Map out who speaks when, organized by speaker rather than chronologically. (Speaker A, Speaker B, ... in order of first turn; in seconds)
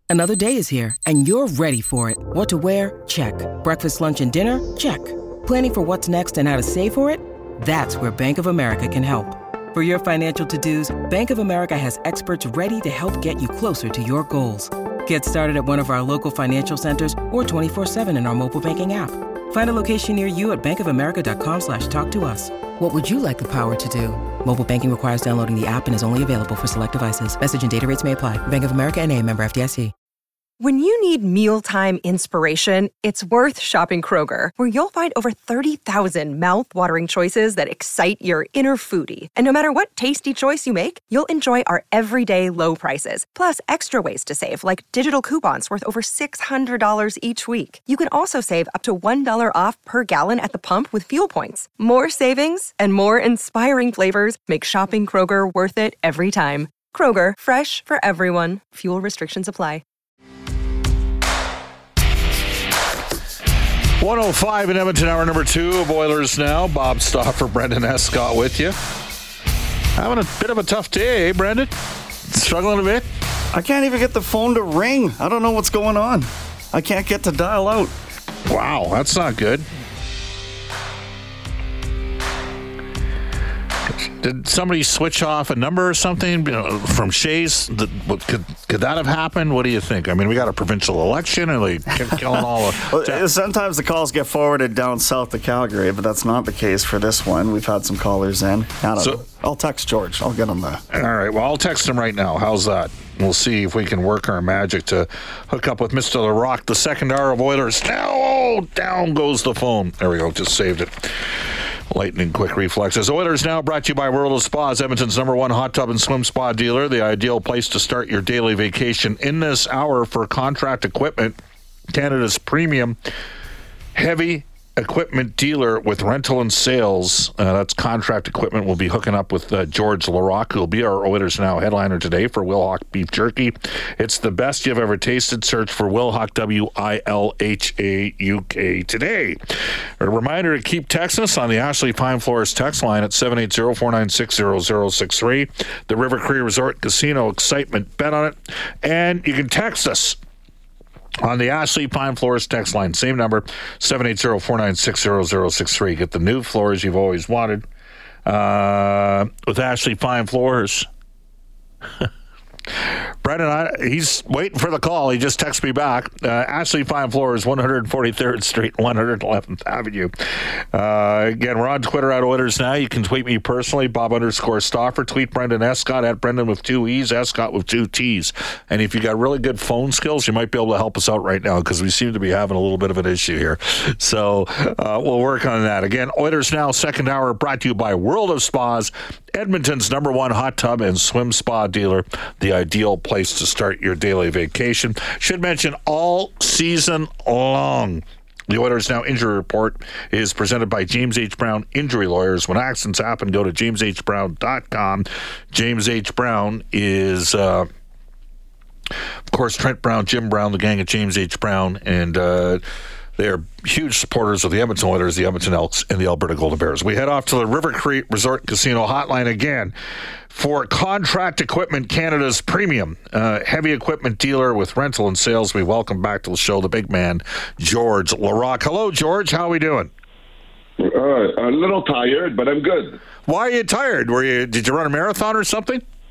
Speaker A: 0.1-29.9
Speaker B: 30.6-59.8
Speaker C: 64.0-68.8, 70.0-71.7, 72.3-73.1, 78.5-79.7, 83.9-93.2, 100.9-121.3, 121.9-123.0, 123.9-139.4, 140.0-150.2, 151.2-157.7, 158.2-160.9, 162.8-207.7, 209.3-212.6, 213.2-219.7, 220.3-229.9, 233.2-235.8
Speaker D: 73.5-77.9, 92.8-100.8
Speaker E: 230.8-233.0